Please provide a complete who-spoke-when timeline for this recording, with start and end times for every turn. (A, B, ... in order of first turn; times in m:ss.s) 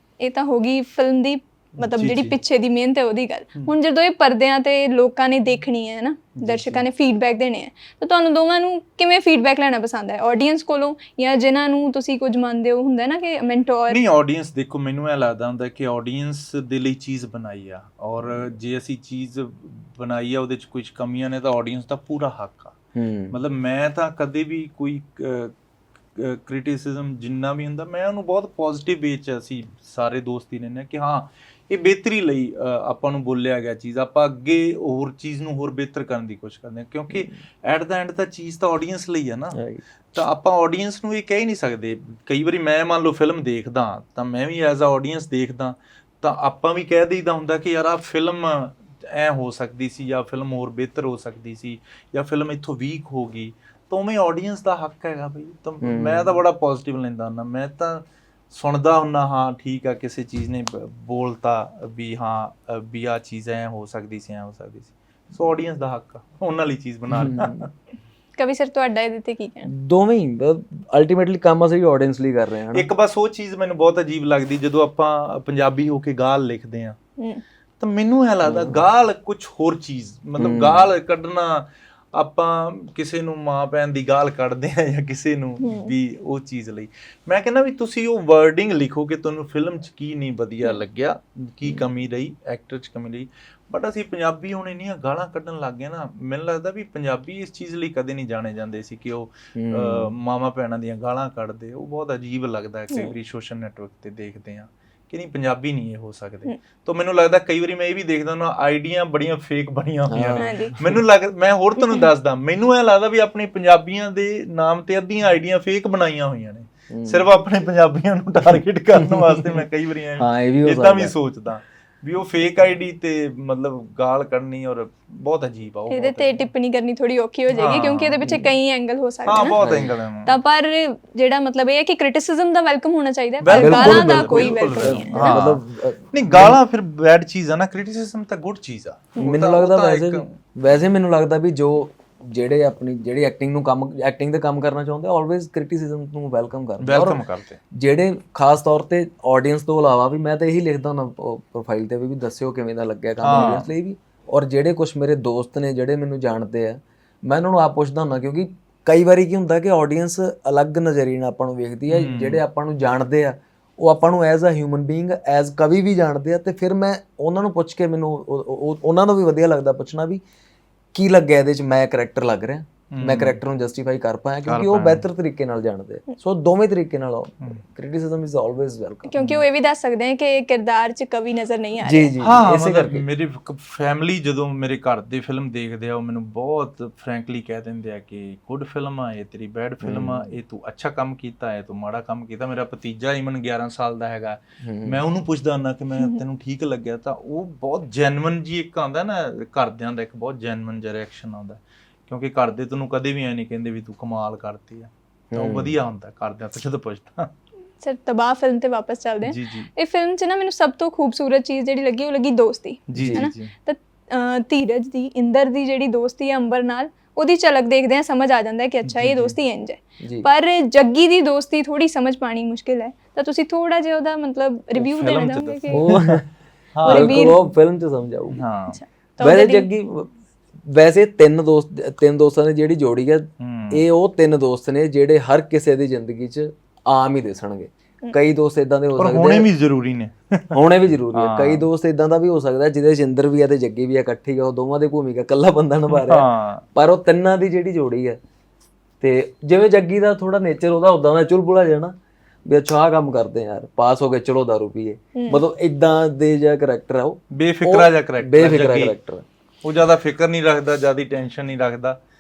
0:00.2-0:14.0 A
0:01.8-0:02.4 B
0:06.4-0:06.8 B
0:13.9-0:22.8 B
0:23.0-0:23.4 C
0:23.3-0:25.5 B
0:26.2-0:39.6 B
0:39.6-0:39.8 C
0:40.1-1:07.7 B
0:55.8-0:56.4 C
1:07.1-1:07.7 C
1:08.4-1:09.7 A
1:09.6-1:12.9 C
1:12.7-1:17.0 B
1:17.2-1:17.4 A
1:17.8-2:06.5 B
1:18.4-1:18.8 C
1:20.4-1:20.9 C
1:25.6-1:25.9 A
1:39.6-1:40.1 C
1:50.1-1:51.0 C
1:50.4-1:50.8 A
1:56.9-1:57.3 C
1:59.0-1:59.6 C
2:00.2-2:01.1 C
2:05.9-2:09.6 A
2:07.5-2:08.5 B
2:08.2-2:08.5 C
2:09.3-2:10.4 B
2:09.6-2:09.9 C
2:10.3-2:15.4 A
2:13.4-2:20.4 B
2:13.5-2:16.6 C
2:19.2-2:50.2 C
2:26.8-2:27.6 B
2:33.2-2:33.6 B
2:33.3-2:33.6 A
2:41.9-2:42.4 B
2:50.9-2:59.2 C
2:52.9-2:53.4 B
2:54.5-2:55.0 B
2:59.1-3:02.1 A
2:59.2-2:59.4 B
3:01.8-3:03.0 C
3:02.2-3:27.3 B
3:09.8-3:10.4 C
3:14.6-3:15.0 C
3:25.3-3:25.8 C
3:27.8-3:46.0 A
3:29.2-3:29.7 B
3:32.9-3:33.5 B
3:33.0-3:33.3 C
3:38.8-3:39.4 B
3:40.0-3:40.3 C
3:44.8-3:46.2 B
3:45.7-3:46.3 C
3:46.8-3:47.3 B
3:46.8-3:48.4 C
3:46.8-3:47.4 A
3:48.3-3:48.8 B
3:48.7-3:49.7 A
3:49.2-3:59.5 C
3:53.4-3:53.9 B
3:59.0-4:01.7 B
4:00.5-4:08.2 C
4:05.9-4:06.6 B
4:09.0-4:19.2 C
4:15.1-4:15.4 A
4:17.3-4:19.0 B
4:19.6-4:22.0 B